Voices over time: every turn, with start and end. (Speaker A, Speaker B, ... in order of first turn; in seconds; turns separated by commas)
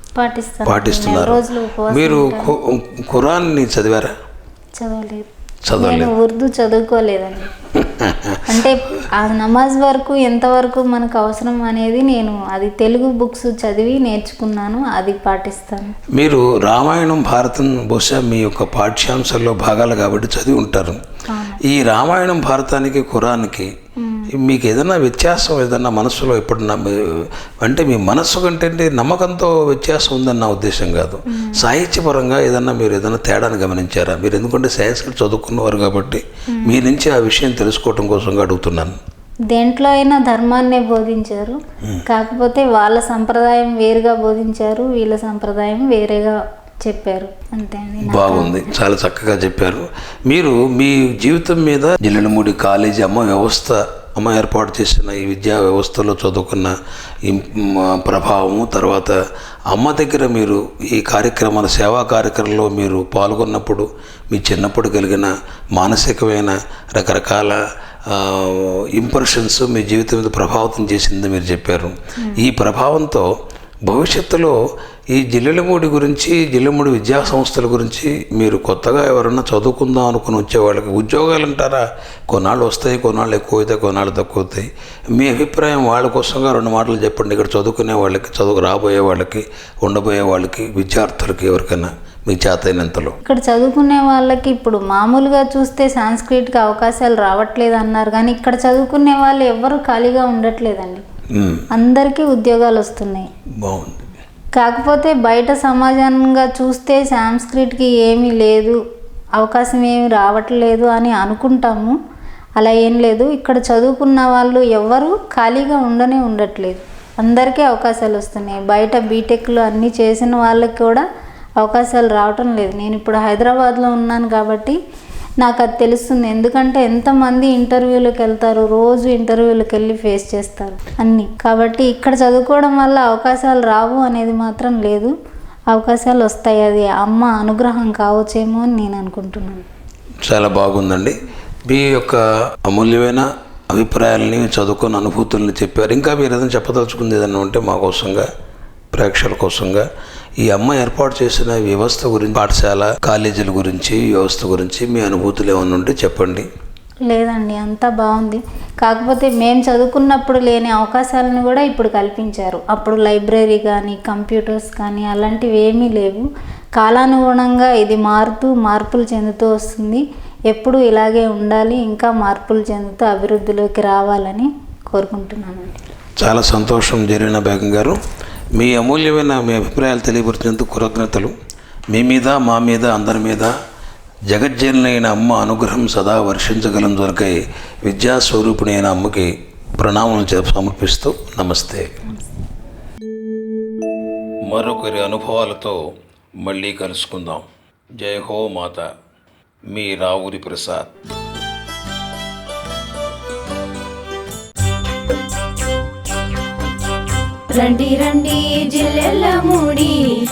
Speaker A: 0.2-2.5, Speaker B: 0.7-4.1, Speaker A: 4.8-7.5, Speaker B: 5.7-6.1, Speaker B: 7.8-8.4, Speaker A: 8.5-15.9, Speaker B: 16.1-21.0, Speaker A: 21.3-21.6, Speaker B: 21.6-23.7, Speaker A: 24.0-24.3, Speaker B: 24.3-39.0, Speaker A: 31.3-31.6, Speaker A: 36.5-36.8, Speaker A: 39.5-48.7, Speaker B: 48.0-59.2, Speaker B: 59.7-73.3, Speaker A: 72.2-72.4, Speaker B: 73.9-93.2, Speaker A: 93.2-101.0, Speaker B: 101.3-101.7, Speaker A: 101.7-103.3, Speaker B: 103.6-104.1, Speaker A: 104.6-108.8, Speaker A: 109.4-112.0, Speaker A: 112.6-121.0, Speaker A: 121.6-124.8, Speaker A: 125.4-135.1, Speaker A: 135.7-139.7, Speaker B: 140.2-141.2, Speaker B: 141.7-148.3, Speaker B: 148.9-149.9, Speaker B: 150.4-156.5, Speaker A: 157.1-166.3, Speaker A: 166.8-175.8, Speaker B: 176.2-178.0, Speaker B: 178.6-181.3, Speaker B: 181.9-183.6, Speaker B: 184.3-191.9, Speaker B: 194.5-197.5, Speaker B: 198.0-198.9, Speaker B: 199.7-200.9, Speaker C: 207.5-210.0